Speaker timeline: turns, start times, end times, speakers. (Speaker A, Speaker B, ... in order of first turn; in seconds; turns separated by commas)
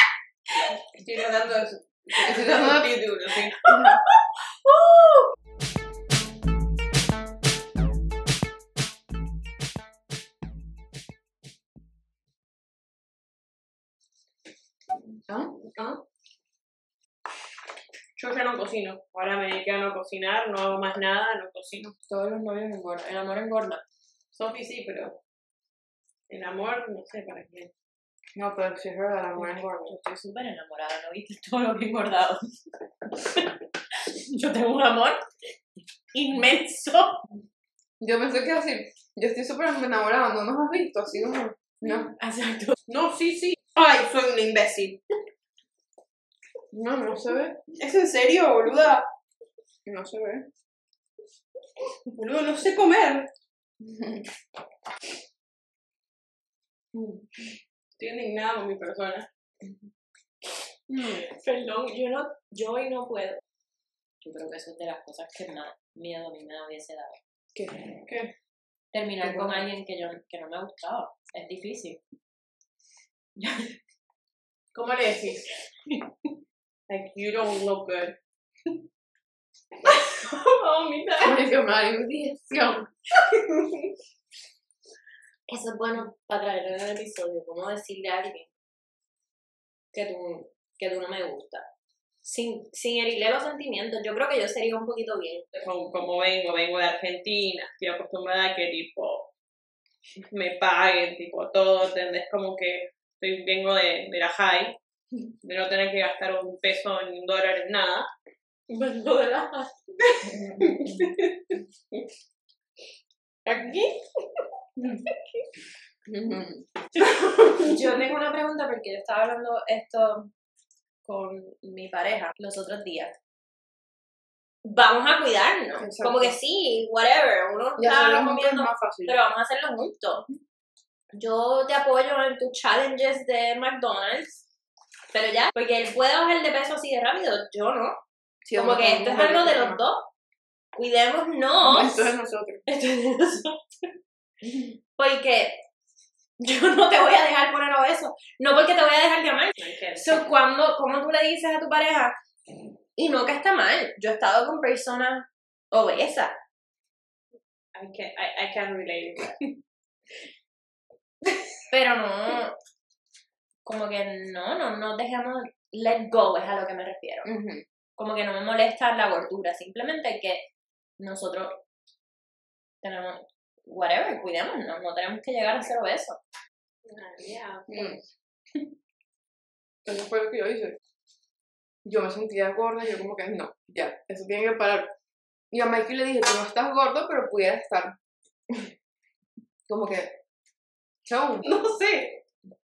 Speaker A: 0.9-3.7, Speaker B: 2.2-2.9, Speaker B: 3.6-4.0, Speaker C: 4.6-5.3, Speaker B: 15.3-16.0, Speaker A: 18.1-21.9, Speaker B: 22.1-23.0, Speaker C: 22.7-23.8, Speaker A: 24.3-25.2, Speaker A: 26.3-27.7, Speaker B: 28.3-29.9, Speaker C: 29.4-32.4, Speaker C: 33.2-33.5, Speaker C: 34.3-35.2, Speaker C: 36.1-37.2, Speaker B: 38.0-42.2, Speaker A: 42.9-45.0, Speaker B: 46.7-47.6, Speaker A: 47.8-49.1, Speaker B: 49.9-50.5, Speaker A: 52.1-53.3, Speaker B: 53.8-54.2, Speaker B: 56.9-57.2, Speaker A: 58.0-59.3, Speaker C: 61.0-63.4, Speaker C: 64.2-67.2, Speaker B: 67.5-67.9, Speaker C: 68.9-72.0, Speaker B: 69.2-69.6, Speaker C: 73.4-73.7, Speaker A: 74.7-75.5, Speaker A: 76.9-78.2, Speaker A: 79.8-81.3, Speaker B: 81.2-82.9, Speaker A: 83.3-83.8, Speaker C: 85.5-88.5, Speaker C: 89.9-91.7, Speaker C: 92.2-95.7, Speaker A: 95.6-99.3, Speaker A: 100.3-104.8, Speaker A: 105.4-108.1, Speaker C: 108.7-109.8, Speaker A: 110.2-111.2, Speaker B: 110.2-111.1, Speaker C: 113.5-114.0, Speaker B: 114.8-115.0, Speaker C: 115.0-115.4, Speaker B: 116.0-116.7, Speaker C: 117.5-120.3, Speaker C: 121.0-123.1, Speaker C: 124.6-130.2, Speaker B: 125.8-126.3, Speaker B: 127.8-129.2, Speaker C: 131.1-134.4, Speaker C: 135.1-138.0, Speaker B: 138.4-139.8, Speaker C: 138.5-140.1, Speaker C: 140.7-142.1, Speaker B: 141.6-142.6, Speaker C: 142.7-143.9, Speaker C: 145.0-145.6, Speaker C: 146.4-152.1, Speaker A: 149.6-150.1, Speaker C: 152.9-156.4, Speaker A: 157.7-159.5, Speaker C: 161.7-162.6, Speaker C: 163.6-167.3, Speaker B: 167.2-167.6, Speaker C: 168.0-170.5, Speaker C: 171.0-171.6, Speaker C: 172.8-176.2, Speaker A: 176.8-178.0, Speaker B: 177.7-178.0, Speaker B: 179.8-180.8, Speaker B: 181.8-184.9, Speaker B: 185.5-188.0, Speaker B: 189.7-190.2, Speaker B: 191.0-191.4, Speaker A: 191.4-192.2